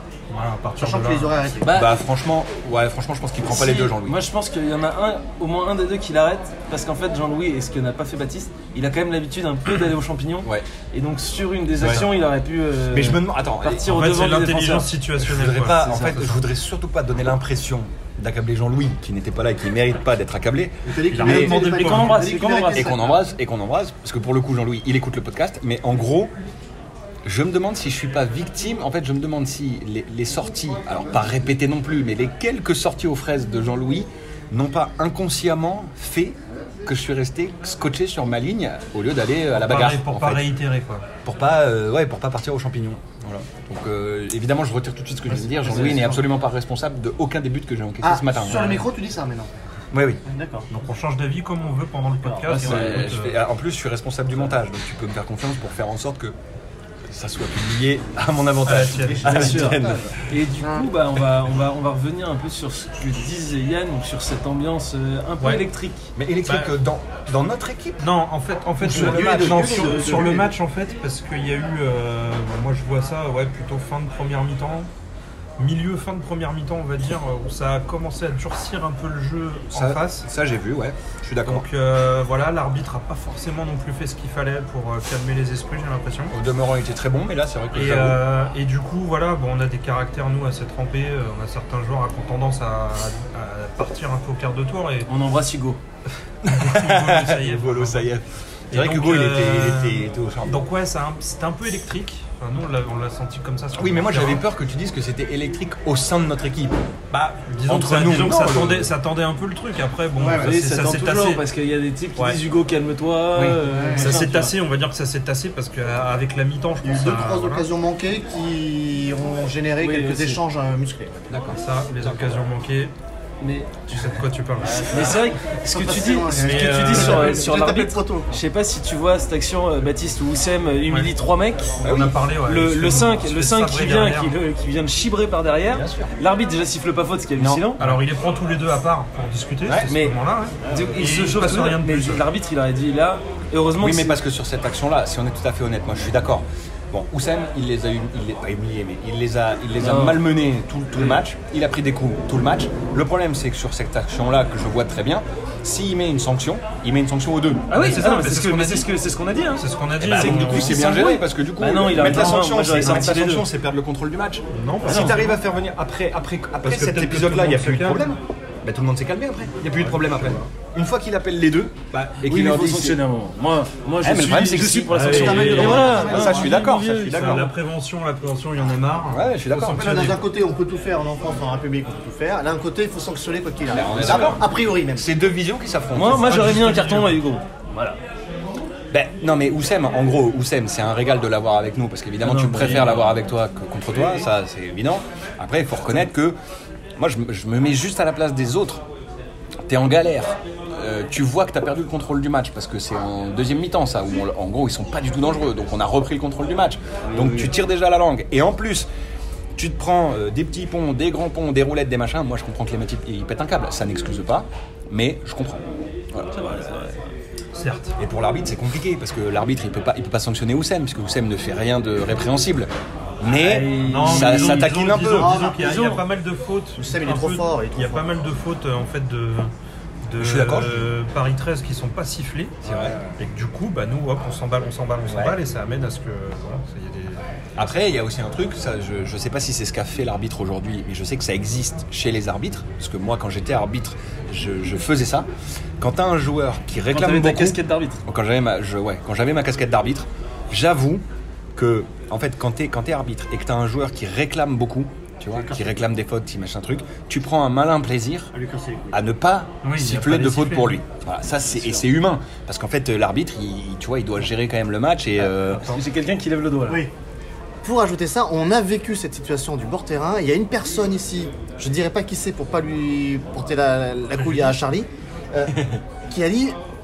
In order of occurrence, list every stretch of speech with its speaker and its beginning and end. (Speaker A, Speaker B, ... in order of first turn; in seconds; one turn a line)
Speaker A: 0.3-1.5
Speaker B: 0.8-1.8
Speaker C: 1.6-2.0
Speaker D: 1.7-4.2
Speaker C: 3.4-14.9
Speaker D: 11.8-12.1
Speaker D: 12.9-14.3
Speaker A: 13.8-16.5
Speaker D: 15.2-21.5
Speaker B: 20.9-23.0
Speaker A: 21.1-22.4
Speaker C: 21.2-22.9
Speaker D: 22.7-26.3
Speaker D: 27.2-40.5
Speaker A: 39.6-41.0
Speaker D: 41.2-48.9
Speaker B: 45.4-46.2
Speaker B: 48.0-49.5
Speaker D: 49.9-50.2
Speaker B: 50.2-50.7
Speaker A: 50.7-53.4
Speaker B: 52.2-53.0
Speaker D: 52.5-56.4
Speaker D: 57.1-60.1
Speaker A: 58.6-59.6
Speaker C: 59.2-66.1
Speaker B: 60.6-60.9
Speaker D: 66.2-68.0
Speaker A: 66.4-66.7
Speaker A: 68.0-74.9
Speaker D: 68.8-69.9
Speaker B: 68.8-70.5
Speaker A: 75.6-80.2
Speaker D: 79.7-81.6
Speaker A: 81.5-86.3
Speaker D: 86.3-88.2
Speaker A: 87.7-95.1
Speaker C: 95.1-95.8
Speaker D: 96.4-100.5
Speaker A: 96.5-98.1
Speaker A: 98.7-104.4
Speaker D: 103.7-106.8
Speaker A: 107.1-111.4
Speaker D: 107.7-108.9
Speaker B: 110.2-110.5
Speaker C: 110.4-114.5
Speaker D: 113.3-113.6
Speaker B: 113.7-114.2
Speaker A: 113.9-117.7
Speaker B: 116.8-121.3
Speaker C: 119.8-120.4
Speaker D: 121.3-122.3
Speaker A: 121.5-122.9
Speaker C: 123.4-124.0
Speaker A: 123.9-125.1
Speaker B: 124.7-125.1
Speaker C: 124.8-131.8
Speaker B: 125.7-128.3
Speaker A: 126.3-127.4
Speaker D: 131.8-132.2
Speaker A: 131.8-134.3
Speaker C: 132.4-137.8
Speaker D: 135.7-136.1
Speaker D: 137.3-137.9
Speaker A: 137.8-142.2
Speaker C: 139.8-144.2
Speaker D: 143.8-157.9
Speaker C: 149.8-150.2
Speaker C: 157.7-163.4
Speaker A: 157.7-158.9
Speaker A: 159.6-160.8
Speaker D: 160.0-173.0
Speaker A: 162.0-163.2
Speaker A: 164.5-165.4
Speaker C: 164.8-165.2
Speaker A: 166.6-168.1
Speaker A: 169.8-170.4
Speaker C: 172.2-177.5
Speaker D: 174.0-177.5
Speaker A: 174.9-180.2
Speaker B: 174.9-176.6
Speaker D: 179.1-179.9
Speaker B: 179.7-185.1
Speaker D: 183.7-186.4
Speaker C: 185.9-188.0
Speaker A: 186.0-187.2
Speaker D: 188.9-196.4
Speaker C: 192.2-193.2
Speaker D: 197.0-198.8
Speaker D: 199.6-208.9
Speaker C: 207.0-207.5
Speaker D: 209.6-216.7
Speaker C: 216.3-217.0
Speaker A: 217.5-217.9
Speaker D: 218.0-225.3
Speaker C: 223.3-226.0
Speaker A: 223.8-229.5
Speaker B: 225.1-225.8
Speaker B: 226.8-228.0
Speaker A: 230.1-232.6
Speaker D: 230.2-230.9
Speaker D: 232.6-232.9
Speaker B: 232.7-233.1
Speaker A: 233.2-237.2
Speaker D: 235.1-235.4
Speaker D: 237.6-245.3
Speaker D: 245.8-258.3
Speaker C: 246.9-248.0
Speaker B: 255.3-255.9
Speaker B: 258.3-259.0
Speaker D: 258.9-265.9
Speaker A: 259.6-260.7
Speaker C: 261.6-261.8
Speaker C: 265.2-266.9
Speaker B: 267.6-275.6
Speaker A: 274.1-274.6
Speaker B: 276.1-276.6